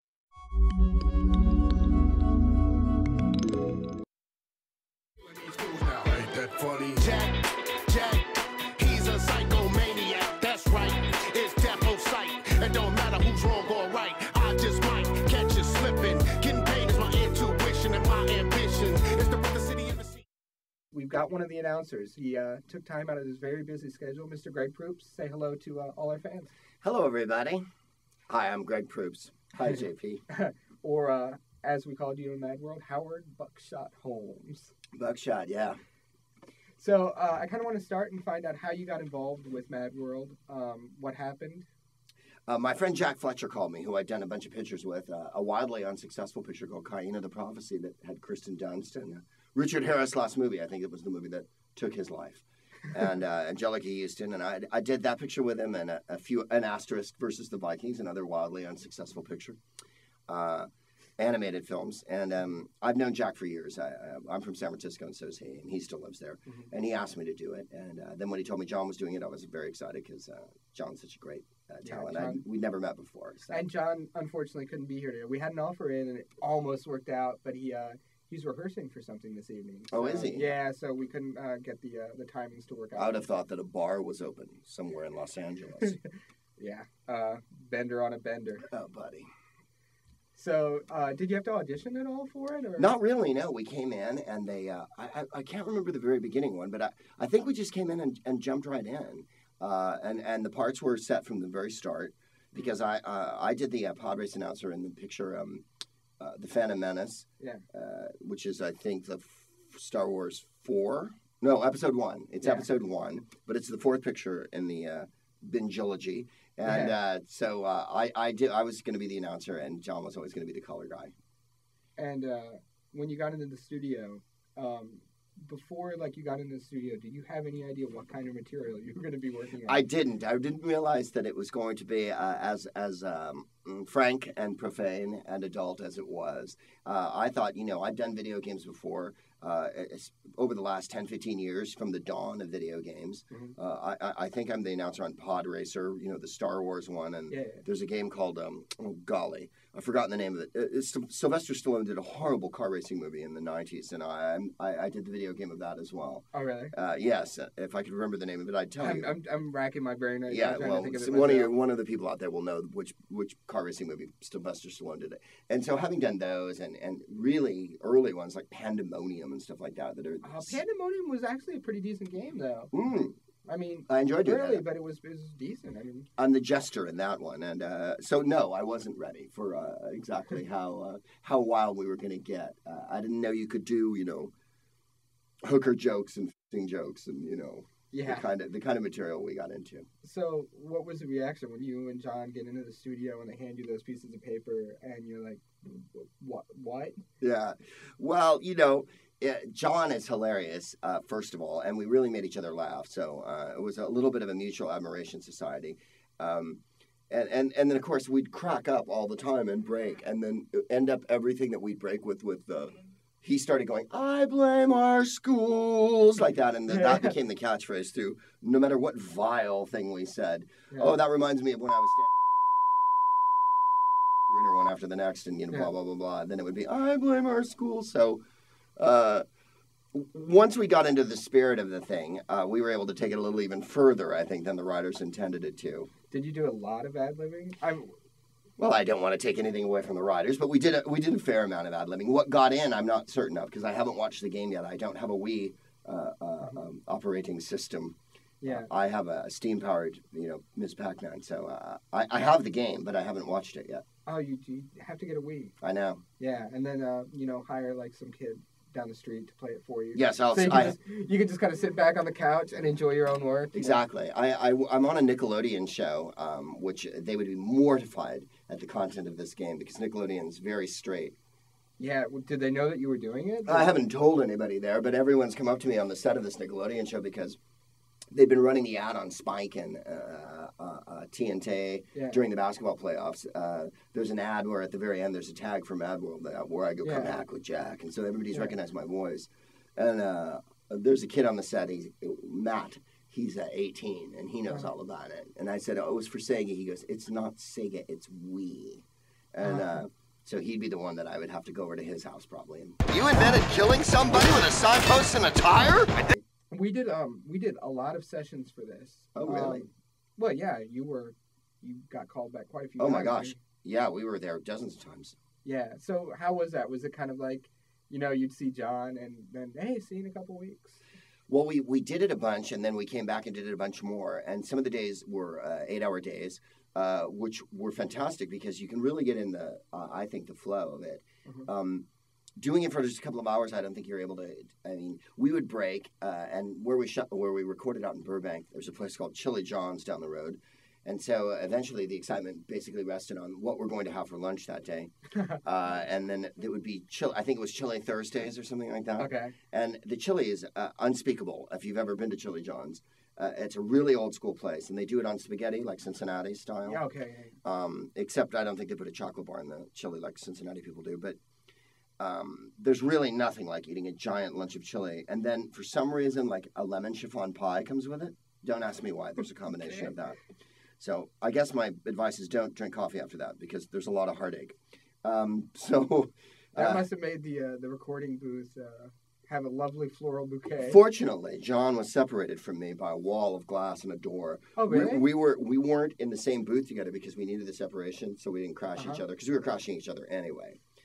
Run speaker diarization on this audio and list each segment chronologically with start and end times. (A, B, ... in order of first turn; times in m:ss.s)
0:05.3-0:20.2 A
0:20.9-0:26.5 B
0:26.8-0:27.6 C
0:28.3-0:30.2 C
0:30.3-0:34.7 B
0:34.9-0:35.8 C
0:36.8-0:41.7 B
0:42.5-0:59.6 C
1:00.3-1:13.6 C
1:11.8-1:12.4 B
1:13.5-1:23.3 B
1:19.9-1:20.5 C
1:23.0-1:26.0 C
1:26.6-1:28.7 B
1:28.7-1:29.3 C
1:30.4-1:32.9 B
1:32.8-1:45.6 C
1:46.2-2:01.2 C
1:47.4-1:47.6 B
1:52.4-1:52.7 B
1:56.6-1:57.0 B
2:02.0-2:09.9 B
2:09.7-2:39.2 C
2:27.3-2:27.6 B
2:36.3-2:36.7 B
2:38.8-2:41.5 B
2:40.3-2:50.6 C
2:50.2-2:52.7 B
2:52.7-2:53.2 C
2:53.5-2:56.1 B
2:53.9-2:54.6 C
2:56.2-3:04.3 C
3:05.4-3:09.9 C
3:07.9-3:08.3 B
3:10.0-3:17.0 B
3:17.2-3:42.2 C
3:36.7-3:37.1 B
3:40.7-3:41.0 B
3:44.3-3:48.2 C
3:48.8-3:49.2 C
3:49.9-3:55.9 C
3:56.1-3:58.0 B
3:58.6-4:13.8 C
4:08.4-4:08.7 B
4:14.1-4:15.5 B
4:15.6-4:16.0 C
4:16.2-4:23.8 B
4:19.9-4:20.8 C
4:23.5-4:31.2 C
4:31.8-4:33.8 B
4:33.5-4:37.4 C
4:38.1-5:06.2 C
4:41.9-4:42.2 B
4:46.8-4:47.1 B
4:59.4-4:59.7 B
5:06.5-5:13.4 B
5:09.2-5:09.7 C
5:12.8-5:15.2 C
5:15.4-5:20.8 B
5:21.3-5:31.8 C
5:32.4-5:44.9 C
5:45.1-5:45.4 B
5:45.4-5:56.8 C
5:49.0-5:49.4 B
5:56.6-5:57.4 B
5:57.4-6:01.2 C
6:02.0-6:10.2 C
6:09.6-6:09.9 B
6:10.8-6:16.8 C
6:16.6-6:20.8 B
6:20.6-6:30.6 C
6:24.6-6:25.1 B
6:28.8-6:29.0 B